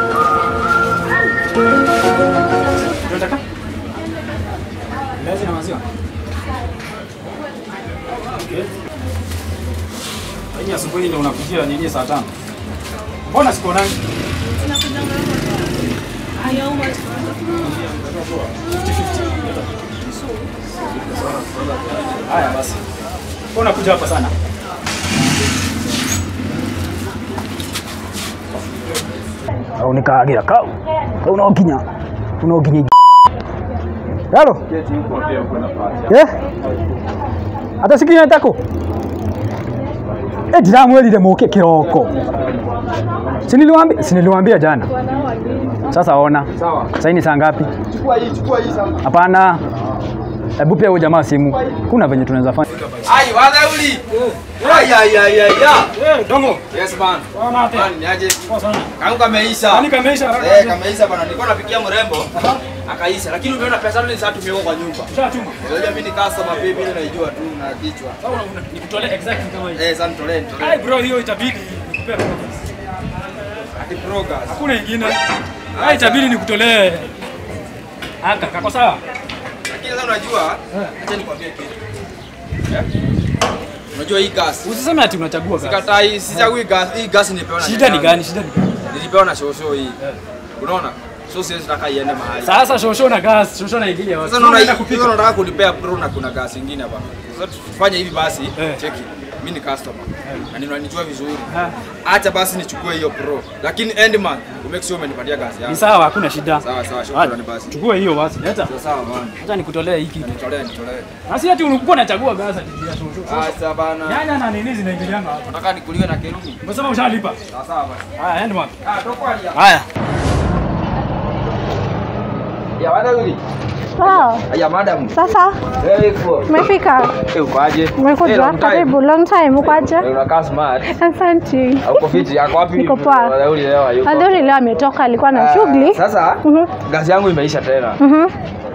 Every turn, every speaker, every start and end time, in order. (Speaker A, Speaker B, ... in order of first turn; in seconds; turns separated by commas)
Speaker A: 3.0-3.4, Speaker A: 5.2-5.8, Speaker A: 8.3-8.7, Speaker A: 10.5-12.3, Speaker A: 13.3-13.9, Speaker A: 16.5-17.8, Speaker A: 18.6-19.6, Speaker A: 22.1-22.8, Speaker A: 23.5-24.3, Speaker A: 29.8-31.8, Speaker A: 32.4-32.9, Speaker A: 34.3-34.6, Speaker B: 34.6-36.2, Speaker A: 36.1-36.3, Speaker A: 37.8-38.6, Speaker A: 40.5-42.2, Speaker A: 43.5-44.9, Speaker A: 45.9-47.7, Speaker B: 46.5-46.9, Speaker B: 47.8-49.0, Speaker A: 49.0-49.6, Speaker A: 50.6-52.9, Speaker B: 52.9-54.0, Speaker A: 54.1-54.9, Speaker B: 54.6-55.9, Speaker A: 55.8-56.6, Speaker B: 56.7-58.5, Speaker A: 57.3-57.9, Speaker A: 58.5-58.9, Speaker B: 59.0-68.2, Speaker A: 59.7-60.8, Speaker A: 65.1-65.6, Speaker A: 68.2-69.8, Speaker B: 69.7-70.8, Speaker A: 70.6-72.7, Speaker B: 73.7-74.6, Speaker A: 74.5-75.2, Speaker B: 75.7-76.4, Speaker A: 75.7-77.1, Speaker A: 78.2-79.0, Speaker B: 79.7-81.8, Speaker B: 83.9-84.7, Speaker A: 84.6-86.5, Speaker B: 85.6-88.2, Speaker A: 87.6-88.8, Speaker B: 88.9-90.0, Speaker B: 90.6-92.7, Speaker A: 92.4-95.2, Speaker B: 94.2-101.5, Speaker A: 101.5-101.8, Speaker B: 102.0-105.9, Speaker A: 105.7-108.7, Speaker B: 106.6-107.8, Speaker B: 108.6-109.4, Speaker A: 109.4-110.3, Speaker B: 110.2-111.1, Speaker A: 111.3-113.5, Speaker B: 113.2-114.3, Speaker A: 114.0-115.5, Speaker B: 115.4-116.6, Speaker A: 116.6-117.4, Speaker B: 117.5-118.1, Speaker A: 118.2-118.7, Speaker B: 118.8-119.7, Speaker A: 119.5-119.8, Speaker B: 122.8-123.4, Speaker C: 124.0-124.4, Speaker B: 124.0-126.6, Speaker C: 125.1-125.6, Speaker C: 126.5-127.2, Speaker B: 127.2-129.0, Speaker C: 128.0-130.1, Speaker B: 129.6-130.9, Speaker C: 130.9-133.3, Speaker B: 131.8-134.5, Speaker C: 134.0-136.7, Speaker B: 135.3-138.0, Speaker C: 138.0-138.3